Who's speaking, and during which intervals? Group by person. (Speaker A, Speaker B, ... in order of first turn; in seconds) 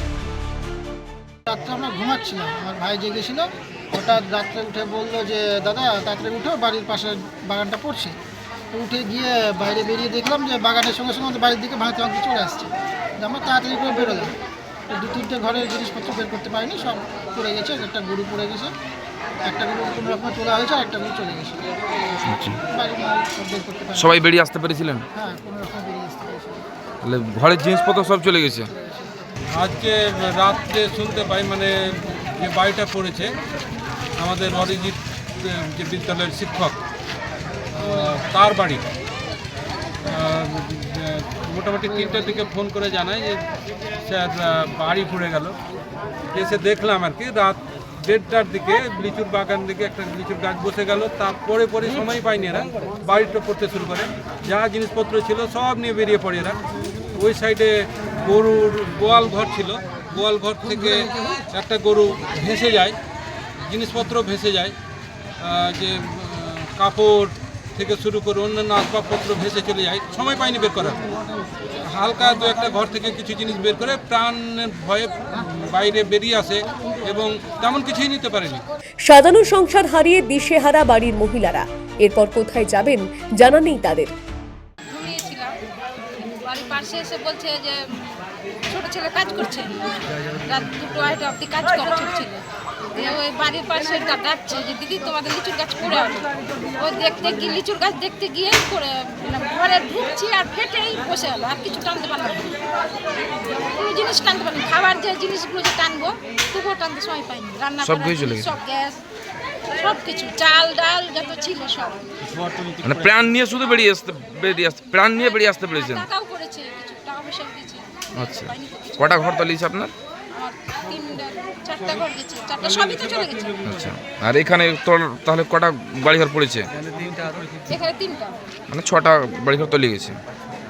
Speaker A: 1.5-8.2, 8.7-14.3, 14.9-18.7, 19.4-21.6, 22.7-24.1, 25.1-26.6
Speaker B: 22.2-22.6, 23.9-25.0, 27.0-28.7, 107.8-108.5, 112.8-116.1, 118.2-119.9, 123.6-126.7, 128.7-130.2
Speaker C: 29.5-33.3, 34.2-36.8, 37.7-38.8, 40.1-43.4, 44.0-45.6, 46.3-56.6, 57.1-63.0, 63.6-64.8, 65.4-71.0, 71.9-78.6, 112.2-113.0, 126.8-127.7
Speaker D: 79.1-84.1
Speaker E: 84.9-85.5, 86.1-92.4, 92.9-102.5, 103.8-109.0, 109.8-112.0, 115.2-119.4, 120.3-123.6, 127.7-128.3